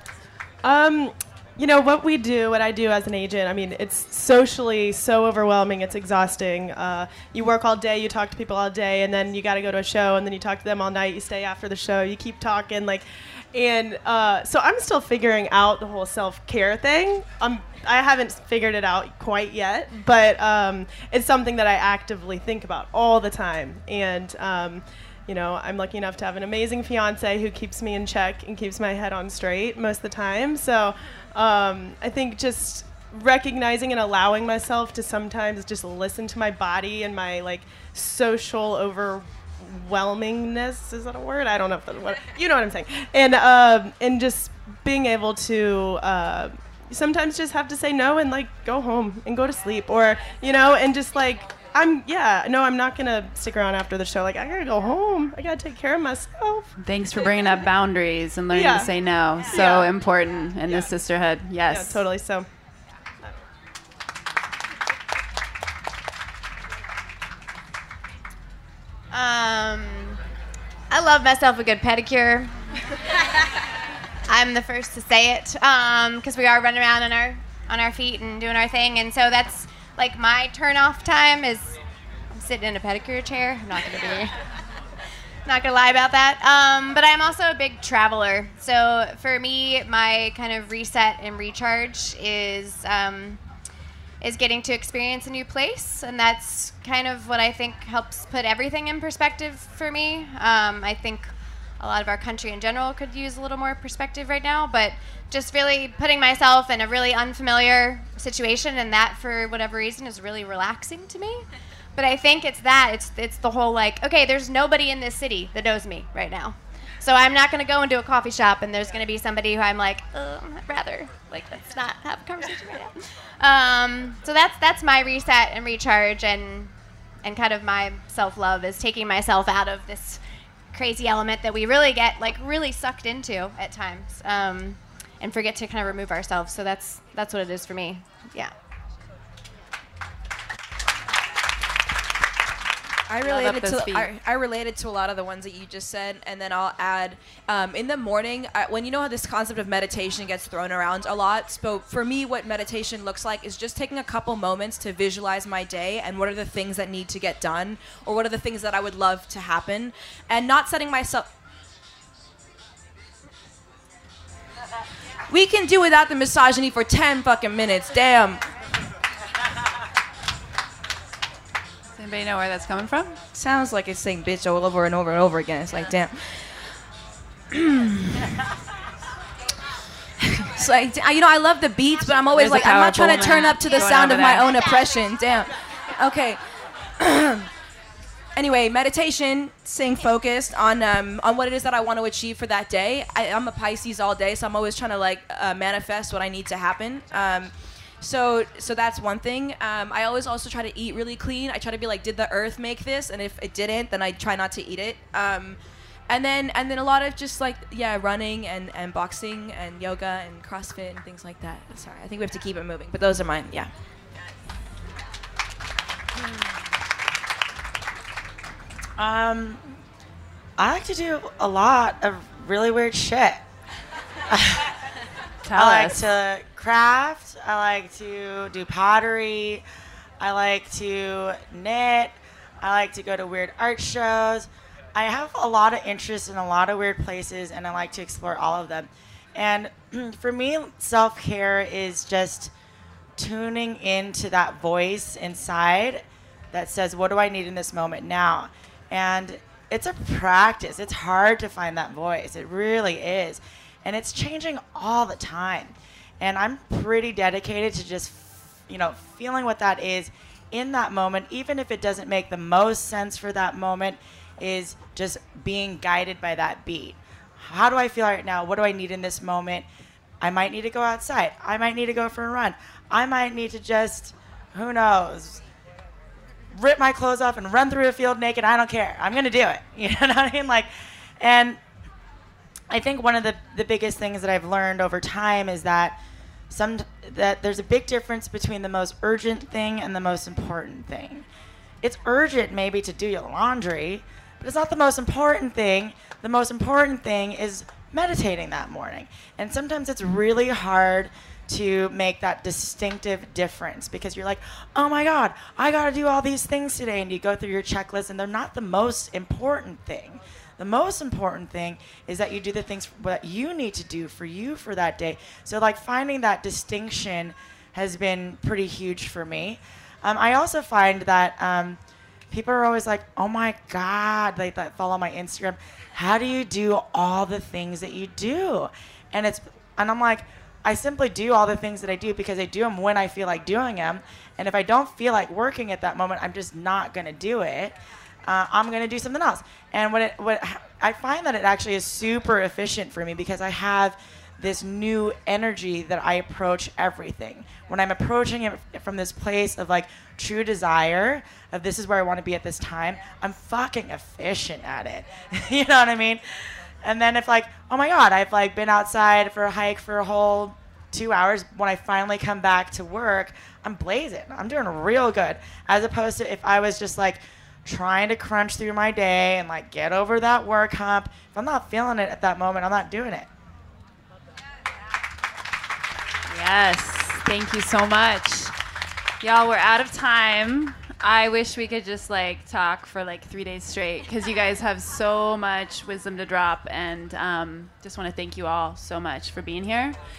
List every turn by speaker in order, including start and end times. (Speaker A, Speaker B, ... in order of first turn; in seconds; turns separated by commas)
Speaker A: 0.6-56.7, Speaker B: 56.8-62.0, Speaker A: 58.5-58.9, Speaker A: 59.5-59.9, Speaker A: 60.7-60.9, Speaker A: 61.7-62.5, Speaker C: 69.1-70.2, Speaker C: 70.9-72.7, Speaker C: 74.3-81.8, Speaker C: 82.3-84.3, Speaker C: 85.5-93.4, Speaker C: 94.2-111.5, Speaker C: 112.0-126.7, Speaker C: 127.2-130.2, Speaker C: 130.7-138.5, Speaker D: 143.1-161.3, Speaker B: 143.2-144.1, Speaker D: 165.3-168.4, Speaker B: 172.0-173.2, Speaker D: 173.3-176.3, Speaker D: 177.5-178.3, Speaker D: 180.5-186.4, Speaker B: 182.3-184.5, Speaker D: 187.0-187.5, Speaker D: 188.4-205.6, Speaker D: 206.1-213.7, Speaker E: 219.0-219.6, Speaker E: 220.6-223.4, Speaker E: 224.3-224.7, Speaker B: 225.4-226.0, Speaker E: 225.6-229.6, Speaker E: 230.2-242.5, Speaker E: 243.2-269.7, Speaker E: 270.2-275.4, Speaker E: 276.6-280.7, Speaker E: 281.2-281.6, Speaker E: 282.7-286.0, Speaker E: 286.5-291.3, Speaker E: 291.8-321.8, Speaker E: 322.3-356.2, Speaker E: 356.8-373.3, Speaker B: 376.3-378.6, Speaker B: 379.2-390.0